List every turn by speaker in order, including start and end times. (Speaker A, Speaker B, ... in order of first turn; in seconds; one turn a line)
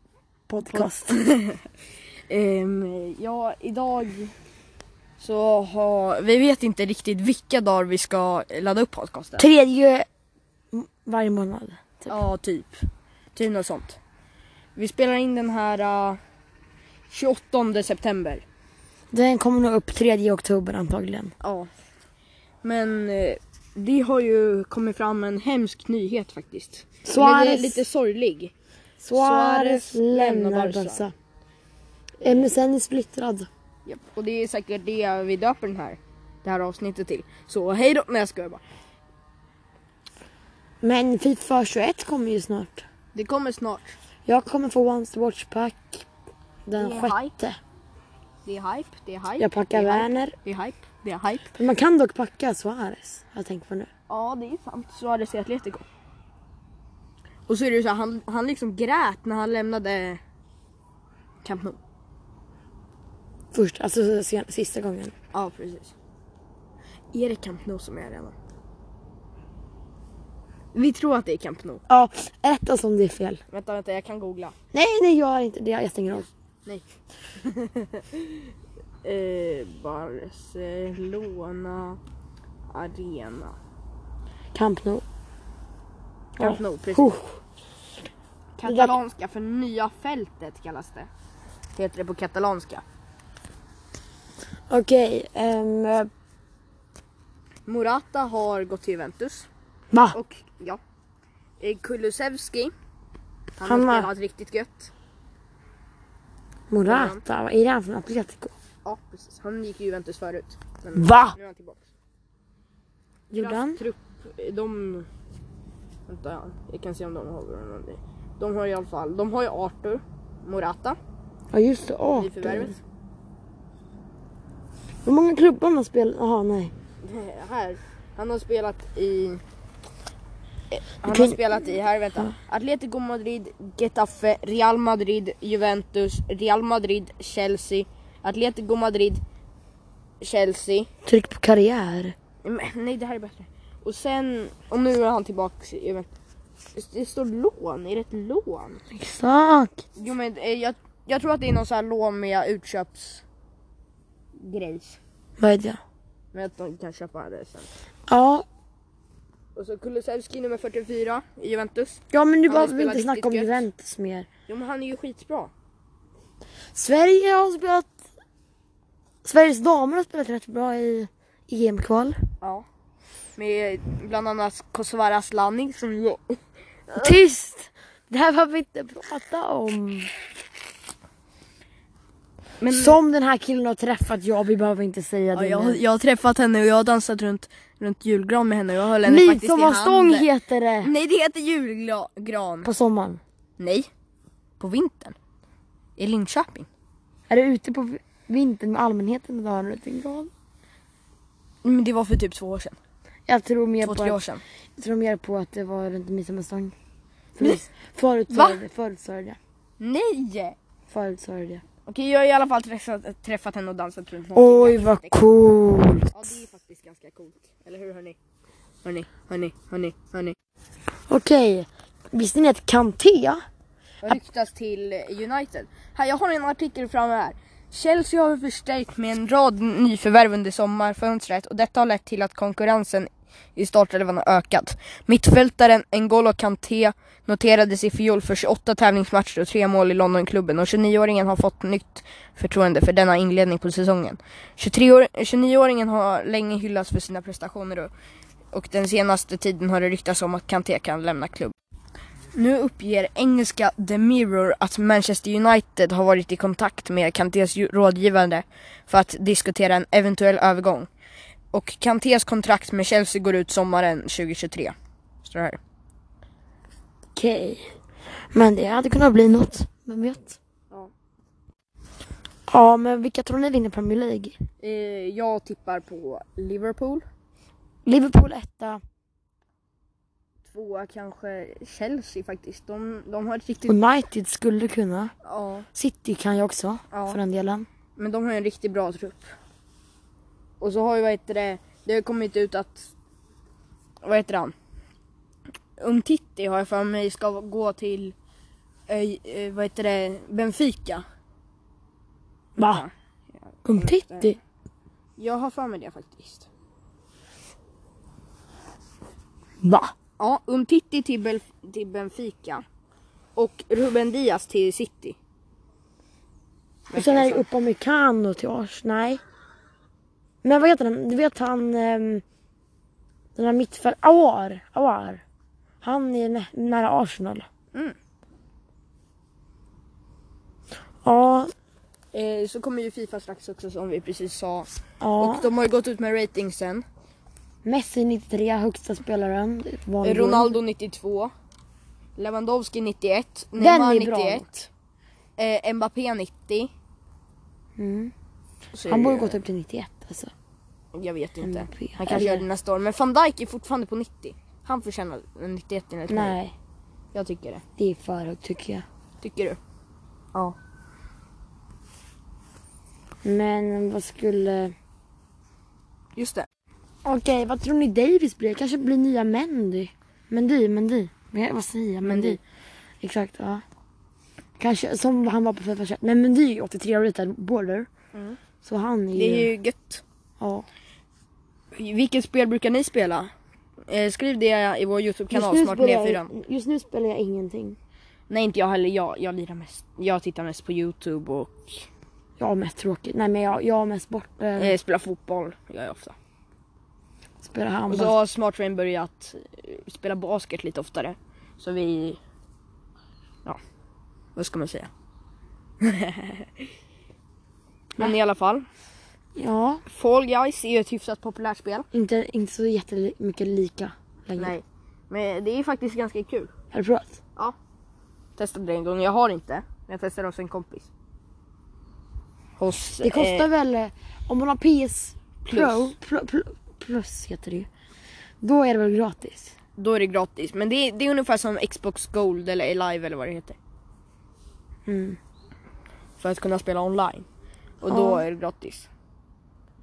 Speaker A: 0.5-1.2
Speaker B: 0.6-1.6
Speaker B: 2.3-4.3
Speaker B: 5.2-9.5
Speaker A: 9.4-10.1
Speaker A: 10.7-12.2
Speaker B: 12.1-14.0
Speaker B: 14.8-16.2
Speaker B: 17.1-18.4
Speaker A: 19.1-21.3
Speaker B: 21.4-21.7
Speaker B: 22.6-28.5
Speaker A: 27.0-27.8
Speaker A: 29.0-31.1
Speaker B: 29.1-31.0
Speaker B: 32.2-32.5
Speaker A: 32.2-33.5
Speaker B: 33.9-38.6
Speaker A: 40.8-42.8
Speaker B: 43.1-44.0
Speaker A: 44.2-46.0
Speaker A: 46.6-47.6
Speaker B: 46.8-47.3
Speaker B: 48.4-51.5
Speaker A: 49.4-50.3
Speaker A: 51.5-53.9
Speaker B: 54.1-55.9
Speaker B: 57.5-60.2
Speaker B: 61.4-61.8
Speaker A: 63.5-65.1
Speaker B: 65.3-65.9
Speaker B: 67.1-68.3
Speaker B: 70.7-71.8
Speaker A: 71.9-73.4
Speaker B: 73.5-74.5
Speaker A: 74.7-76.3
Speaker B: 77.4-78.5
Speaker B: 79.0-82.0
Speaker B: 82.7-83.6
Speaker A: 84.5-85.0
Speaker A: 86.4-87.4
Speaker B: 86.4-87.2
Speaker B: 88.6-91.1
Speaker A: 88.6-89.0
Speaker B: 91.7-92.8
Speaker A: 94.7-96.1
Speaker B: 97.7-99.5
Speaker A: 99.9-100.2
Speaker B: 100.1-100.8
Speaker B: 101.6-102.7
Speaker B: 103.6-104.9
Speaker A: 103.6-104.1
Speaker A: 106.7-108.5
Speaker B: 106.8-107.2
Speaker B: 108.8-111.8
Speaker A: 110.9-111.4
Speaker A: 113.3-113.8
Speaker B: 113.4-115.1
Speaker B: 116.1-121.0
Speaker A: 121.5-122.8
Speaker B: 122.2-122.8
Speaker A: 125.0-126.7
Speaker B: 127.0-129.4
Speaker B: 130.7-139.2
Speaker A: 131.1-131.4
Speaker B: 140.2-140.9
Speaker A: 141.0-142.1
Speaker B: 142.4-146.1
Speaker B: 146.7-148.8
Speaker A: 148.9-149.8
Speaker B: 150.0-153.2
Speaker B: 154.4-155.0
Speaker A: 155.4-155.8
Speaker B: 156.3-157.7
Speaker A: 158.1-158.4
Speaker B: 159.5-163.6
Speaker A: 162.1-164.3
Speaker B: 164.5-165.5
Speaker A: 166.7-167.9
Speaker A: 169.2-172.2
Speaker B: 173.3-176.4
Speaker B: 176.9-177.2
Speaker A: 176.9-180.1
Speaker B: 182.6-183.0
Speaker A: 182.7-185.8
Speaker B: 185.3-190.3
Speaker A: 189.0-190.9
Speaker B: 190.8-192.7
Speaker A: 192.6-193.2
Speaker B: 193.6-193.9
Speaker B: 194.6-195.2
Speaker B: 196.0-196.7
Speaker A: 197.3-200.3
Speaker B: 201.6-202.8
Speaker A: 203.3-204.2
Speaker B: 203.8-204.4
Speaker A: 204.8-206.7
Speaker A: 207.3-209.4
Speaker B: 208.3-208.6
Speaker B: 209.8-210.6
Speaker A: 210.9-211.6
Speaker B: 211.9-215.2
Speaker A: 214.3-216.3
Speaker B: 216.1-218.2
Speaker B: 218.8-220.3
Speaker A: 221.1-223.4
Speaker B: 224.0-247.9
Speaker B: 248.5-251.5
Speaker B: 252.3-260.9
Speaker B: 261.5-265.6
Speaker A: 267.1-267.7
Speaker A: 268.3-270.4
Speaker A: 272.5-274.4
Speaker B: 274.6-277.0
Speaker A: 277.9-278.8
Speaker B: 280.4-283.8
Speaker A: 283.6-285.1
Speaker B: 285.2-285.6
Speaker A: 285.7-287.6
Speaker B: 286.9-287.2
Speaker B: 288.0-289.3
Speaker B: 290.6-292.9
Speaker B: 294.0-294.5
Speaker B: 295.8-298.1
Speaker B: 298.9-301.0
Speaker A: 302.6-302.9
Speaker B: 302.6-302.9
Speaker B: 303.5-304.4
Speaker A: 303.6-304.4
Speaker B: 305.2-306.5
Speaker A: 309.6-309.9
Speaker B: 310.2-312.6
Speaker B: 313.4-315.2
Speaker B: 316.9-317.5
Speaker A: 316.9-319.2
Speaker A: 320.4-322.2
Speaker A: 323.4-325.2
Speaker A: 325.8-327.5
Speaker A: 331.0-331.5
Speaker B: 332.1-334.7
Speaker A: 335.0-335.5
Speaker B: 335.2-336.8
Speaker A: 337.6-340.6
Speaker B: 340.0-341.3
Speaker B: 342.2-344.5
Speaker A: 343.6-344.7
Speaker B: 345.4-346.7
Speaker A: 347.8-348.1
Speaker B: 348.7-349.4
Speaker A: 348.9-350.3
Speaker B: 350.9-356.4
Speaker A: 351.4-352.4
Speaker A: 356.1-356.5
Speaker B: 357.1-357.6
Speaker A: 357.8-358.8
Speaker B: 359.2-359.6
Speaker A: 363.2-364.7
Speaker B: 366.1-366.5
Speaker A: 367.0-372.4
Speaker B: 372.0-372.4
Speaker A: 373.0-373.6
Speaker A: 374.6-377.9
Speaker B: 378.1-378.4
Speaker A: 378.6-379.5
Speaker B: 379.1-380.0
Speaker A: 380.4-380.6
Speaker B: 381.7-383.3
Speaker B: 383.9-386.3
Speaker A: 385.3-387.8
Speaker B: 388.3-391.8
Speaker A: 392.4-394.8
Speaker B: 394.6-396.1
Speaker A: 397.4-398.2
Speaker B: 397.9-402.2
Speaker B: 404.3-404.9
Speaker B: 405.8-406.7
Speaker B: 408.0-408.7
Speaker A: 409.4-409.8
Speaker B: 409.9-411.9
Speaker A: 411.9-414.5
Speaker B: 414.4-416.5
Speaker A: 416.7-417.1
Speaker B: 418.4-420.9
Speaker B: 422.6-423.5
Speaker A: 423.0-427.7
Speaker B: 425.4-425.9
Speaker A: 428.4-429.5
Speaker B: 429.8-433.6
Speaker A: 434.9-435.2
Speaker B: 436.2-437.2
Speaker B: 437.8-438.9
Speaker A: 437.9-438.2